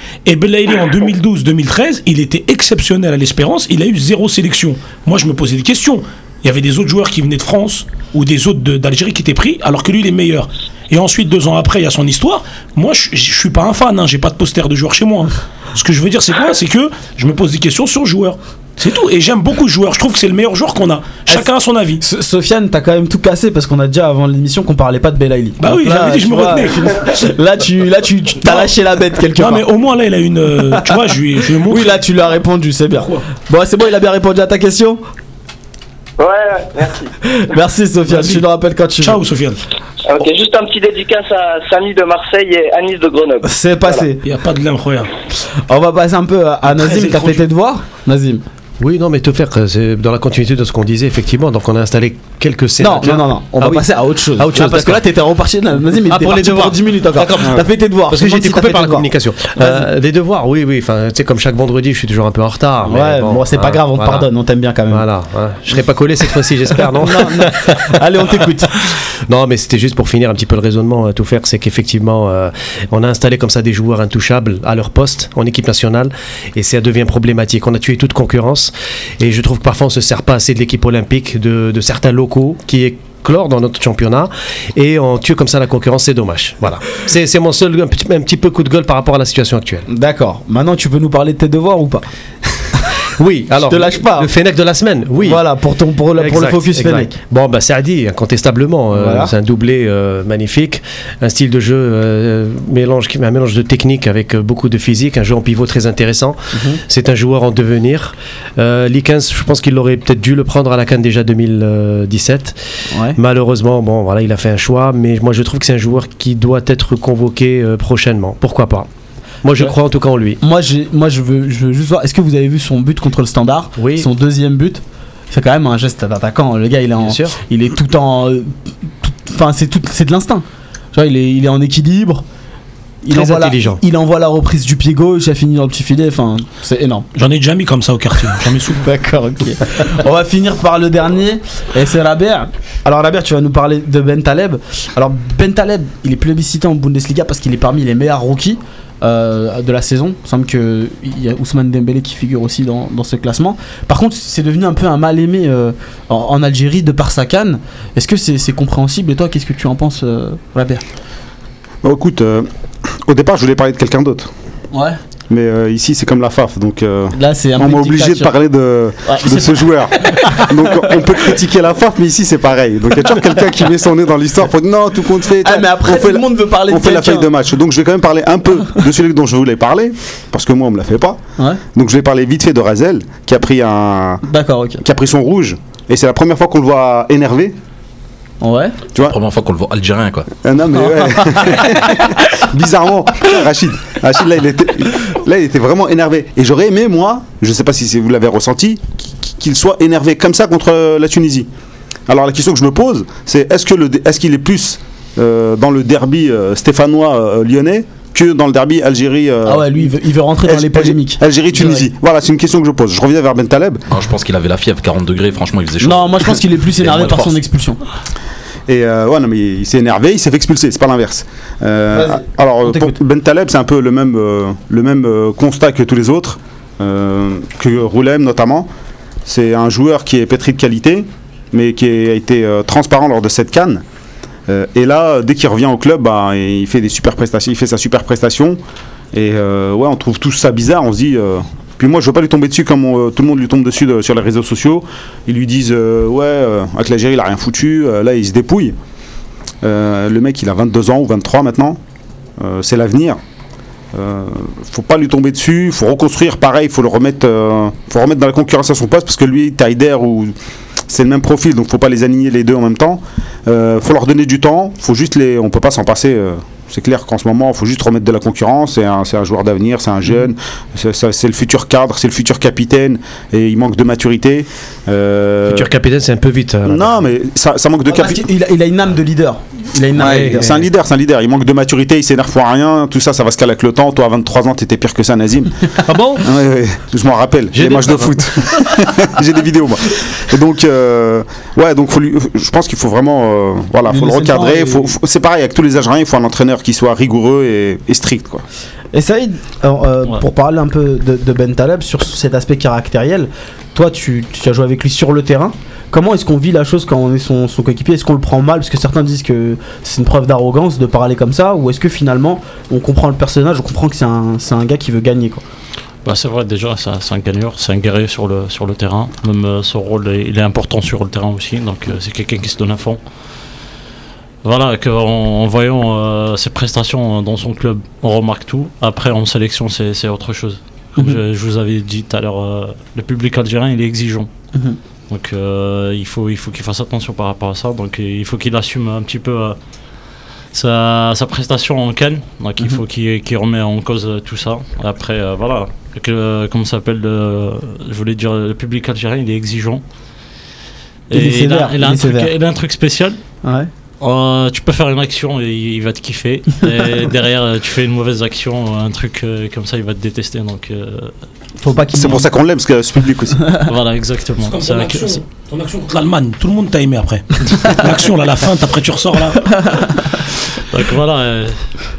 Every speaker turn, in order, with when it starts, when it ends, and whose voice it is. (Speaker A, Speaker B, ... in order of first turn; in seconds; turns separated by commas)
Speaker A: 0.2-22.0, Speaker B: 22.0-29.6, Speaker A: 25.6-27.0, Speaker A: 28.4-28.7, Speaker A: 29.3-32.0, Speaker B: 30.7-31.0, Speaker B: 31.7-35.0, Speaker A: 33.0-33.2, Speaker C: 36.2-37.1, Speaker B: 37.3-39.2, Speaker A: 38.1-38.4, Speaker A: 39.0-39.6, Speaker C: 40.1-44.1, Speaker B: 43.4-44.2, Speaker A: 44.2-45.1, Speaker B: 45.6-48.4, Speaker A: 46.7-47.5, Speaker D: 48.8-55.1, Speaker B: 52.8-59.9, Speaker D: 55.9-64.3, Speaker B: 62.9-65.1, Speaker D: 64.9-67.9, Speaker B: 67.0-68.9, Speaker D: 68.9-89.9, Speaker B: 89.9-92.1, Speaker D: 93.1-95.5, Speaker B: 93.7-94.3, Speaker B: 95.2-97.1, Speaker D: 96.2-118.9, Speaker B: 98.9-99.3, Speaker B: 106.5-106.8, Speaker B: 112.9-113.2, Speaker D: 119.4-120.4, Speaker B: 120.4-132.2, Speaker D: 123.8-124.1, Speaker D: 127.0-127.4, Speaker B: 133.0-137.1, Speaker D: 133.1-133.8, Speaker A: 137.2-138.9, Speaker B: 138.8-160.8, Speaker E: 161.8-164.3, Speaker B: 164.7-165.0, Speaker E: 165.3-181.2, Speaker B: 167.2-168.4, Speaker B: 169.1-171.3, Speaker B: 175.4-177.3, Speaker E: 181.7-184.3, Speaker B: 184.3-184.8, Speaker E: 184.8-187.6, Speaker B: 188.4-188.8, Speaker F: 189.0-190.3, Speaker E: 190.4-201.5, Speaker B: 190.8-192.4, Speaker E: 202.1-213.8, Speaker B: 209.5-211.8, Speaker F: 213.9-217.4, Speaker B: 215.8-217.8, Speaker E: 218.7-228.7, Speaker B: 221.9-223.0, Speaker E: 229.2-233.8, Speaker E: 234.5-238.6, Speaker E: 239.1-248.8, Speaker E: 249.6-251.8, Speaker E: 252.4-253.2, Speaker E: 253.9-260.4, Speaker E: 260.9-275.7, Speaker D: 275.5-277.0, Speaker E: 276.7-278.3, Speaker B: 277.9-280.5, Speaker D: 280.0-280.6, Speaker E: 280.0-298.4, Speaker D: 285.9-286.2, Speaker D: 287.5-288.2, Speaker B: 293.9-294.9, Speaker B: 298.9-315.4, Speaker G: 316.1-323.0, Speaker G: 324.4-334.3, Speaker G: 335.1-339.6, Speaker G: 340.5-349.8, Speaker G: 351.1-353.2, Speaker B: 351.1-352.3, Speaker B: 353.4-353.7, Speaker G: 354.0-361.1, Speaker B: 361.6-362.3, Speaker E: 361.9-363.6, Speaker G: 363.6-365.2, Speaker A: 364.4-369.7, Speaker G: 370.1-371.7